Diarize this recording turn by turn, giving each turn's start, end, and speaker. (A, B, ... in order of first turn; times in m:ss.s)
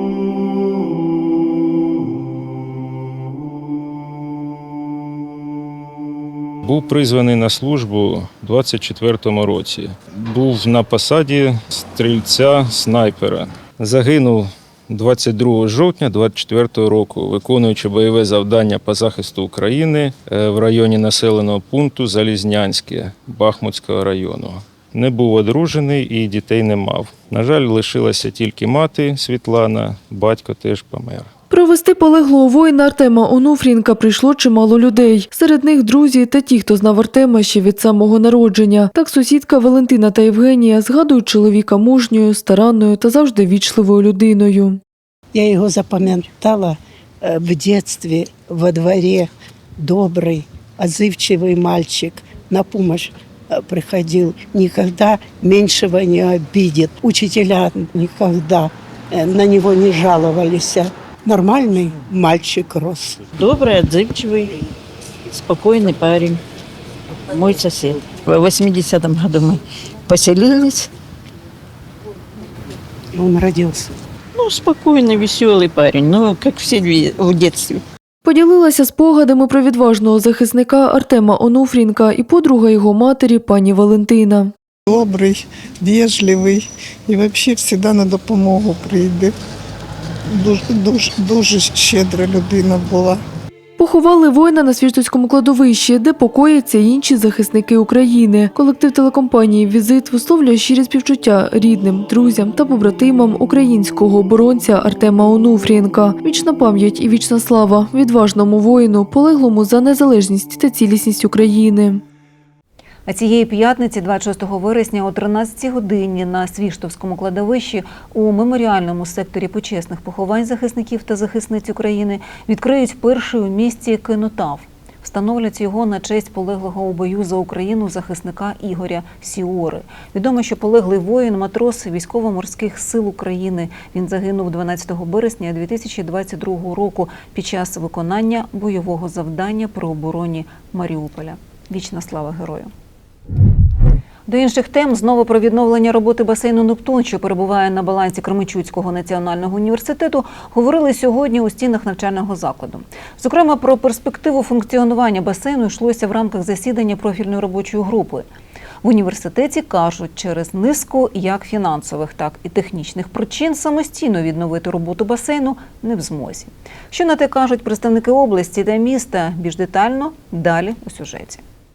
0:06.6-0:31.3 A
0:31.5-0:44.8 B
0:45.3-1:03.2 C
1:03.4-1:04.6 D
1:05.3-1:06.4 D
1:07.3-1:10.9 D
1:13.2-1:13.9 C
1:14.4-1:17.8 D
1:18.2-1:24.5 B
1:24.9-1:29.3 E
1:30.3-1:33.2 E
1:33.8-1:52.0 B
1:53.1-2:22.7 F
2:24.3-2:38.2 F
2:38.8-2:51.4 F